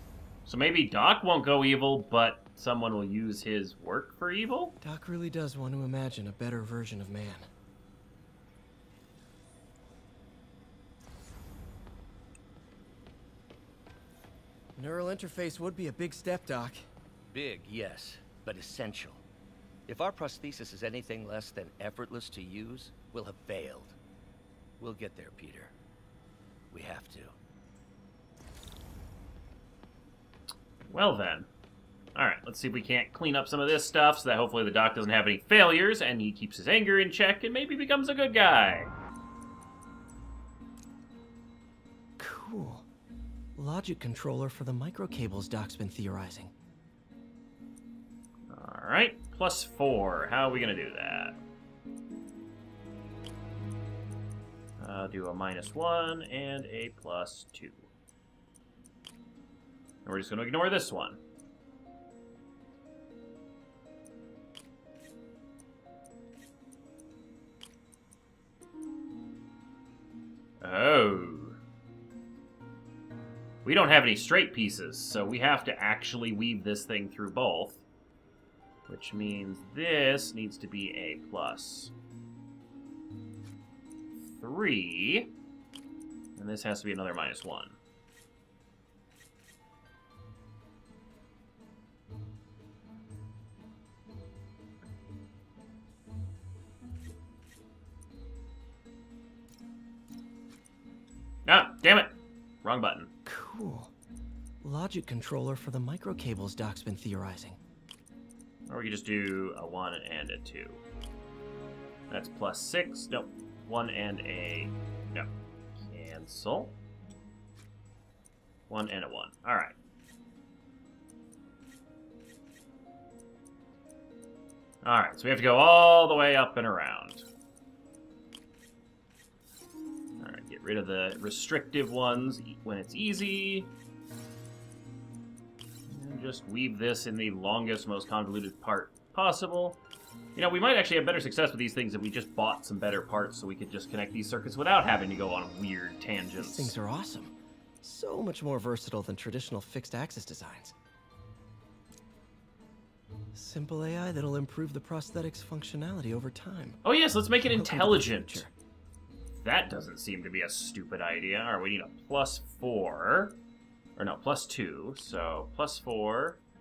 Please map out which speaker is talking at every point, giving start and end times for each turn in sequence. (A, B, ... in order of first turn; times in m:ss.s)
0:00.4-0:04.7 A
0:04.8-0:07.5 B
0:14.8-0:16.8 B
0:17.3-0:19.2 C
0:19.9-0:24.0 C
0:24.8-0:25.7 C
0:26.7-0:27.3 C
0:30.9-0:31.5 A
0:32.1-0:38.9 A
0:42.2-0:42.9 B
0:43.6-0:46.5 B
0:48.5-0:51.4 A
0:54.8-0:57.9 A
1:00.0-1:01.2 A
1:10.6-1:11.6 A
1:13.6-1:17.8 A
1:18.9-1:21.9 A
1:24.2-1:25.3 A
1:26.4-1:27.8 A
1:41.4-1:43.1 A
1:43.2-1:43.9 B
1:44.6-1:47.6 B
1:48.7-1:50.8 A
1:52.1-1:55.3 A
1:55.8-1:56.7 A
1:58.7-1:59.7 A
2:04.8-2:07.2 A
2:10.2-2:13.7 A
2:15.9-2:19.8 A
2:20.3-2:26.7 A
2:26.4-2:30.7 B
2:33.3-2:36.8 B
2:36.8-2:38.5 A
2:37.4-2:38.5 B
2:39.4-2:43.4 A
2:44.0-2:46.4 A